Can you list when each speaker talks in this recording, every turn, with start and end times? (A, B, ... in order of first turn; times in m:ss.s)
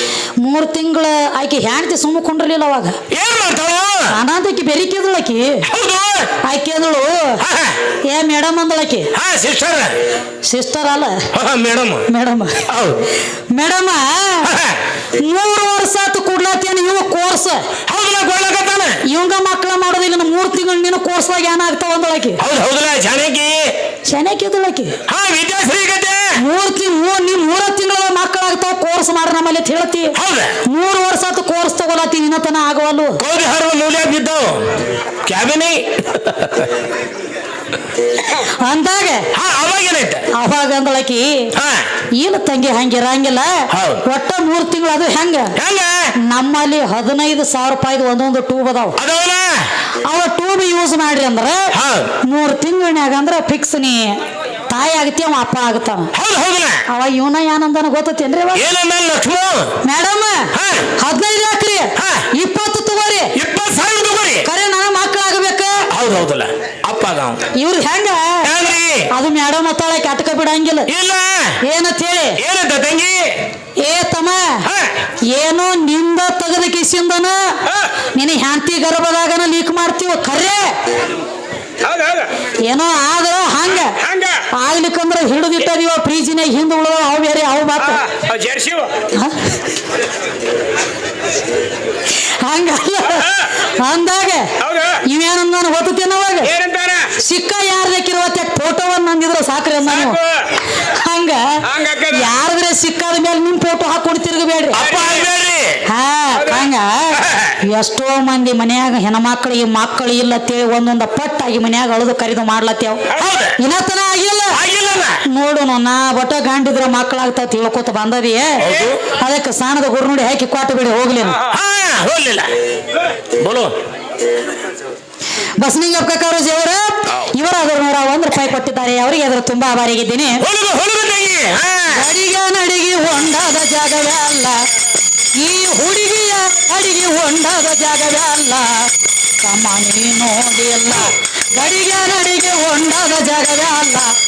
0:00.4-0:03.0 A
0:03.1-0:04.2 B
0:04.1-0:05.6 A
0:05.6-0:06.3 B
0:06.4-0:07.4 A
0:07.4-0:07.8 B
0:08.1-0:09.1 A
0:09.1-0:10.0 B
0:10.4-0:11.2 A
0:11.3-0:12.1 B
0:12.1-0:12.6 A
0:12.7-0:13.1 B
0:13.5-0:14.5 A
0:14.4-0:14.8 B
0:15.2-0:17.6 A
0:17.9-0:19.0 B
0:19.1-0:22.4 A
0:22.4-0:23.7 B
0:24.1-0:25.0 A
0:25.1-0:26.4 B
0:26.4-0:30.1 A
0:30.1-0:30.6 B
0:30.6-0:33.2 A
0:33.2-0:34.7 B
0:35.2-0:36.7 B
0:38.4-0:39.3 A
0:39.3-0:40.3 B
0:40.3-0:41.5 A
0:41.5-0:41.9 B
0:42.2-0:45.5 A
0:43.7-0:44.0 B
0:45.6-0:46.1 B
0:46.2-0:49.0 A
0:49.0-0:49.6 B
0:50.1-0:51.7 A
0:51.7-0:52.1 B
0:52.2-0:54.2 A
0:54.7-0:56.1 A
0:56.1-0:56.8 B
0:56.9-0:58.6 A
0:58.5-0:59.7 B
0:59.8-1:03.3 A
1:00.5-1:00.9 B
1:02.0-1:02.3 B
1:03.4-1:04.5 B
1:04.4-1:05.8 A
1:05.9-1:07.4 B
1:07.5-1:08.4 A
1:08.4-1:09.1 B
1:09.1-1:10.9 A
1:10.9-1:11.6 B
1:11.6-1:12.4 A
1:12.4-1:13.3 B
1:13.8-1:14.6 A
1:14.6-1:14.9 B
1:15.3-1:17.6 A
1:18.1-1:20.7 A
1:21.8-1:22.3 C
1:22.7-1:24.0 A
1:24.0-1:24.4 C
1:24.5-1:28.0 A
1:27.8-1:29.0 C
1:29.1-1:29.5 A
1:32.1-1:36.5 A
1:33.1-1:33.4 C
1:34.6-1:35.0 C
1:36.4-1:37.1 C
1:37.2-1:40.2 A
1:39.9-1:40.5 C
1:40.8-1:44.8 A
1:41.7-1:42.2 C
1:44.7-1:45.8 B
1:44.8-1:45.2 C
1:45.9-1:53.1 A
1:47.2-1:47.6 B
1:53.1-1:53.6 B
1:53.6-1:54.6 A
1:54.5-1:55.2 B
1:55.2-2:01.4 A
1:58.6-1:59.0 B
2:01.5-2:02.5 B
2:03.4-2:03.7 B
2:05.6-2:10.4 A
2:10.4-2:12.0 B
2:11.9-2:14.6 A
2:15.4-2:18.9 A
2:19.4-2:24.1 A